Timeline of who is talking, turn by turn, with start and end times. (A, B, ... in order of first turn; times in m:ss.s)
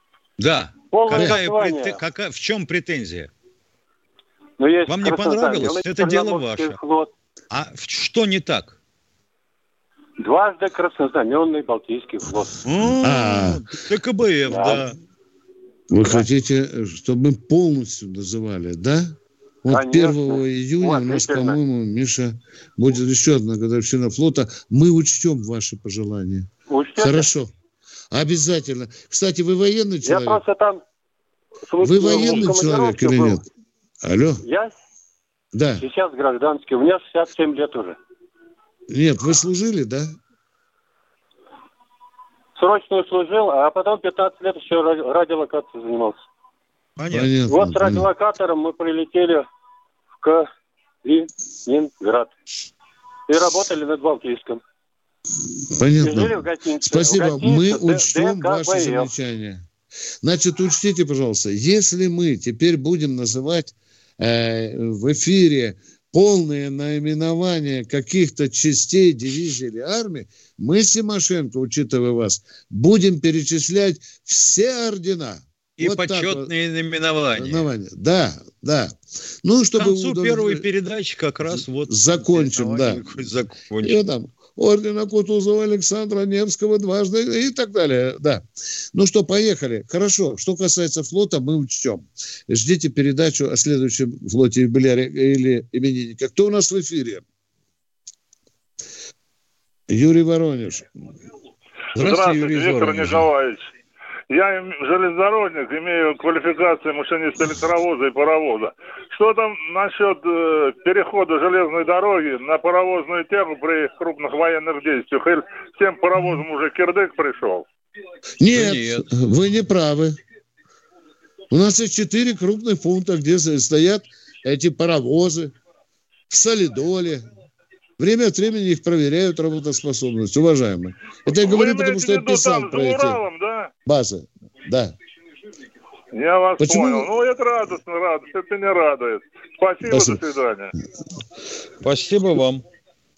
0:00.4-0:03.3 A
0:00.9-0:02.0 B
0:04.6-0:07.1 B
0:04.9-0:06.8 A
0:07.5-0:08.8 A
0:10.2-0:12.6 B
0:12.6-0:14.9 A
0:13.0-0:13.6 C
0:14.4-0:14.8 B
0:15.9-0:27.5 C
0:19.7-0:21.6 B
0:26.7-0:27.3 B
0:28.1-0:30.4 C
0:30.0-0:30.8 B
0:31.7-0:33.4 B
0:31.8-0:33.4 C
0:34.0-0:34.4 C
0:34.4-0:34.7 B
0:35.5-0:35.8 C
0:35.8-0:38.0 B
0:38.9-0:40.1 C
0:42.6-0:46.2 B
0:47.0-0:47.3 A
0:47.1-0:48.1 C
0:47.5-0:49.4 B
0:51.0-0:52.3 B
0:53.3-0:54.6 B
0:55.7-0:59.6 C
0:56.0-0:59.1 B
1:00.2-1:16.5 C
1:15.8-1:17.7 A
1:17.4-1:20.6 C
1:19.8-1:24.0 A
1:21.5-1:23.1 C
1:23.8-1:37.2 C
1:39.9-1:40.8 C
1:42.0-1:43.7 D
1:42.0-1:43.2 A
1:44.3-1:57.6 D
1:58.4-2:00.2 C
1:58.5-1:59.0 A
2:01.5-2:05.5 C
2:06.3-2:07.3 C
2:08.0-2:13.2 C
2:11.4-2:13.7 D
2:13.8-2:14.9 C
2:16.1-2:20.7 D
2:16.6-2:17.1 C
2:19.9-2:20.2 C
2:21.8-2:22.6 A